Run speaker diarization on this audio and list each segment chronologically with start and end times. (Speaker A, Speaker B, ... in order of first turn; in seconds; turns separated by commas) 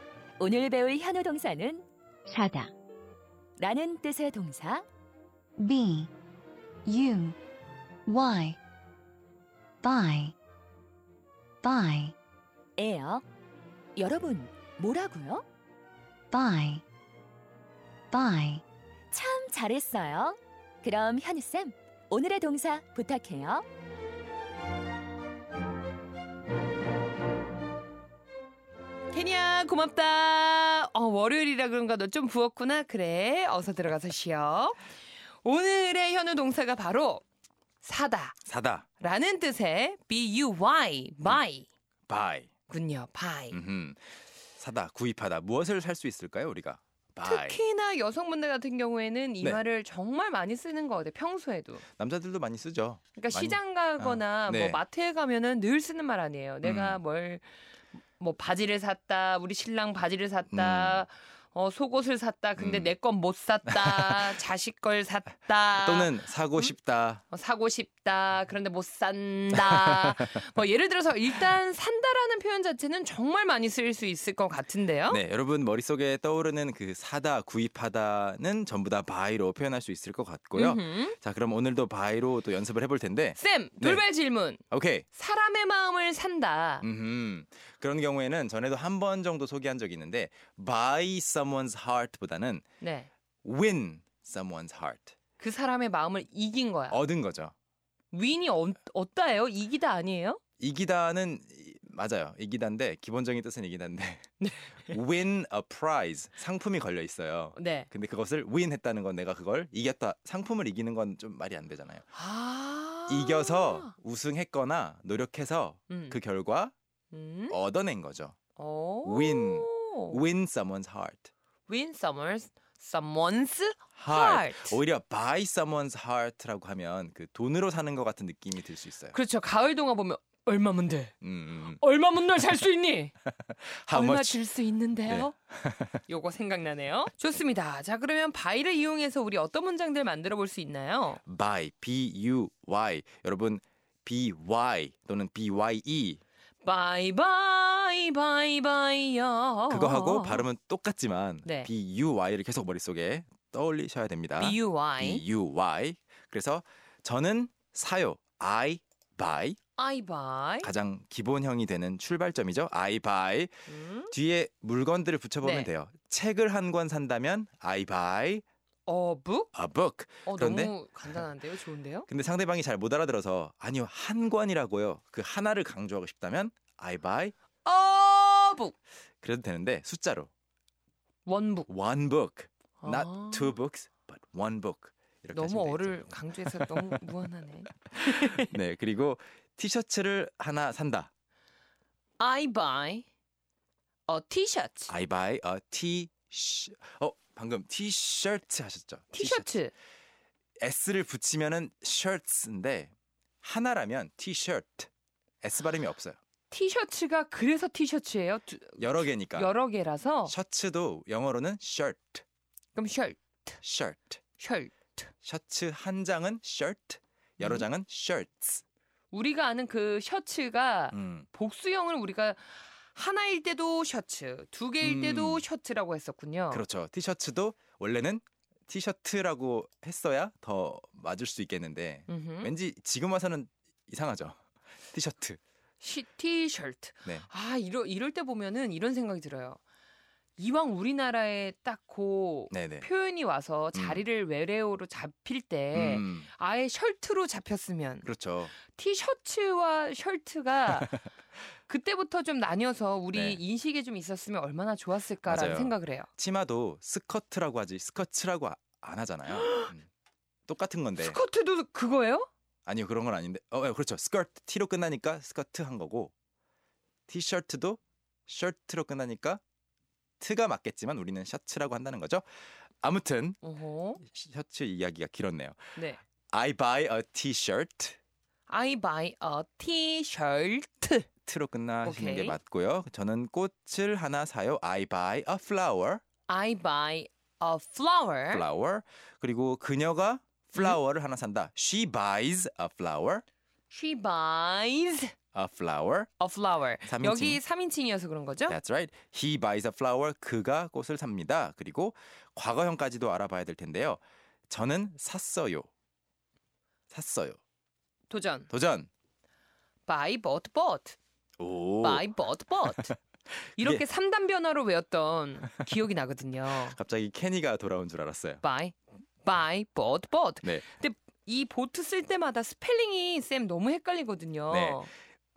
Speaker A: 0.4-2.7, Speaker A: 3.6-4.8, Speaker B: 5.7-6.1, Speaker B: 7.0-7.4, Speaker B: 8.1-8.6, Speaker B: 9.8-10.3, Speaker B: 11.7-12.1, Speaker A: 12.8-13.2, Speaker A: 14.0-15.4, Speaker B: 16.3-16.8, Speaker B: 18.2-18.6, Speaker A: 19.1-23.6, Speaker C: 29.1-34.9, Speaker C: 35.4-37.2, Speaker C: 37.8-38.4, Speaker D: 38.5-38.9, Speaker C: 39.0-41.7, Speaker D: 42.1-42.5, Speaker C: 42.7-43.6, Speaker D: 43.5-44.0, Speaker D: 44.6-47.6, Speaker C: 47.2-51.8, Speaker D: 51.9-54.8, Speaker C: 53.2-57.5, Speaker D: 56.6-57.0, Speaker C: 58.2-66.7, Speaker D: 60.5-61.0, Speaker D: 62.6-62.9, Speaker D: 63.7-64.3, Speaker D: 65.8-67.2, Speaker C: 67.3-75.2, Speaker D: 69.5-70.3, Speaker D: 75.1-84.0, Speaker C: 80.5-81.2, Speaker C: 83.3-86.9, Speaker D: 84.7-85.0, Speaker D: 86.8-92.6, Speaker C: 92.8-93.1, Speaker D: 93.4-95.1, Speaker C: 95.4-97.0, Speaker D: 96.9-97.5, Speaker C: 98.1-100.4, Speaker D: 100.6-112.0, Speaker C: 104.4-105.0, Speaker C: 107.5-107.9, Speaker C: 112.1-113.9, Speaker D: 113.1-116.7, Speaker C: 115.9-116.2, Speaker C: 117.1-117.6, Speaker D: 117.5-118.3, Speaker C: 118.6-120.2, Speaker D: 119.0-121.3, Speaker C: 121.7-124.8, Speaker D: 124.0-129.2, Speaker C: 129.1-131.1, Speaker D: 131.2-131.8, Speaker C: 131.7-133.1, Speaker D: 133.2-134.4, Speaker C: 133.9-135.4, Speaker D: 135.1-136.0, Speaker C: 136.1-141.2, Speaker D: 141.2-146.2, Speaker C: 146.6-150.5, Speaker D: 149.7-159.6, Speaker C: 151.4-151.7, Speaker C: 154.4-155.2, Speaker C: 159.8-160.7, Speaker D: 160.6-163.5, Speaker C: 163.7-164.1, Speaker D: 164.1-168.4, Speaker C: 165.4-165.7, Speaker C: 168.9-169.5, Speaker D: 169.5-170.8, Speaker C: 170.2-172.1, Speaker D: 172.1-177.3, Speaker C: 177.6-178.8, Speaker D: 179.2-180.3, Speaker C: 181.2-181.7, Speaker D: 181.7-186.9, Speaker C: 182.8-183.6, Speaker C: 185.3-188.5, Speaker D: 188.0-191.1, Speaker C: 192.2-193.1, Speaker C: 194.1-194.9, Speaker D: 194.9-199.5, Speaker C: 199.1-199.7, Speaker D: 200.6-202.9, Speaker D: 203.4-204.9, Speaker D: 205.4-206.2, Speaker C: 206.5-210.3, Speaker D: 208.8-209.5, Speaker D: 210.2-212.2, Speaker C: 212.8-213.6, Speaker D: 213.6-214.2, Speaker C: 214.4-215.1, Speaker D: 215.2-218.6, Speaker C: 217.4-217.7, Speaker C: 219.1-226.6, Speaker D: 220.9-221.3, Speaker D: 224.8-225.4, Speaker D: 226.5-234.4, Speaker C: 232.1-232.5, Speaker D: 234.9-235.4, Speaker C: 235.8-239.6, Speaker C: 240.4-248.1, Speaker D: 242.5-242.9, Speaker D: 243.7-244.1, Speaker D: 245.7-246.3, Speaker D: 248.0-248.6, Speaker C: 248.6-251.1, Speaker D: 250.8-251.0, Speaker C: 251.7-256.1, Speaker D: 253.1-253.4, Speaker D: 255.2-259.9, Speaker C: 259.3-259.7, Speaker D: 260.5-261.2, Speaker C: 261.0-262.3, Speaker D: 262.6-266.1, Speaker D: 267.1-269.4, Speaker D: 270.2-272.2, Speaker D: 272.8-273.4, Speaker C: 273.4-274.0, Speaker D: 274.0-275.8, Speaker D: 276.3-278.0, Speaker C: 278.5-281.1, Speaker D: 281.2-286.0, Speaker C: 281.8-282.4, Speaker C: 286.3-288.4, Speaker D: 288.3-293.2, Speaker C: 293.7-295.1, Speaker D: 295.3-296.1, Speaker C: 296.2-298.6, Speaker D: 296.8-297.4, Speaker D: 298.5-305.7, Speaker D: 306.9-307.4, Speaker C: 308.1-308.5, Speaker D: 308.5-308.9, Speaker C: 309.9-311.0, Speaker D: 311.4-312.1, Speaker C: 311.8-312.9, Speaker C: 313.6-316.8, Speaker D: 313.6-313.8, Speaker D: 316.6-318.4, Speaker C: 318.4-324.9, Speaker D: 324.5-324.9